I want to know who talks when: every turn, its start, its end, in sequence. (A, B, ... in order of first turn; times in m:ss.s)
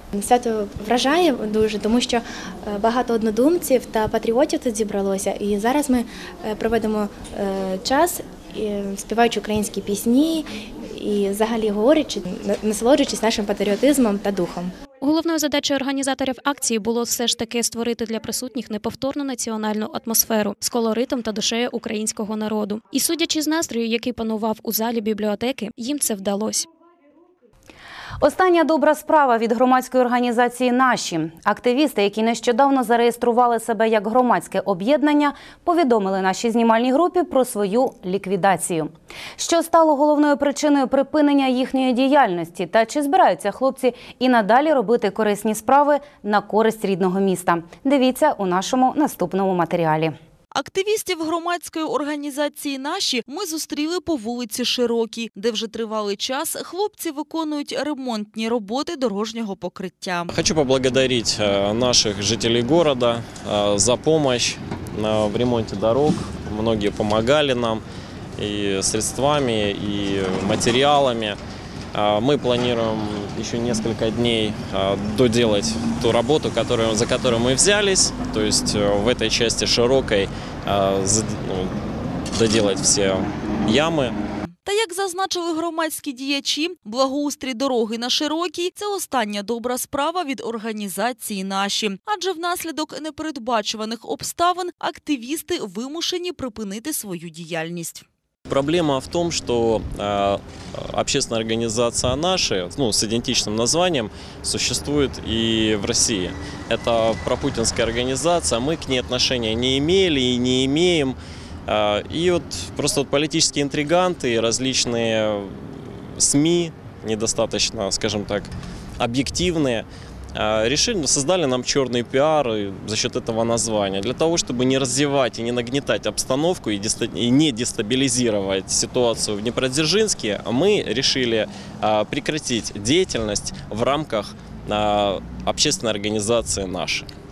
0:00.1-0:14.7 A
0:15.0-0:26.7 B
0:28.2-0:50.2 C
0:50.5-1:00.3 D
1:00.3-1:07.8 E
1:08.4-1:11.4 E
1:11.9-1:21.7 E
1:22.3-1:24.2 E
1:24.6-1:38.0 D
1:38.5-2:17.1 E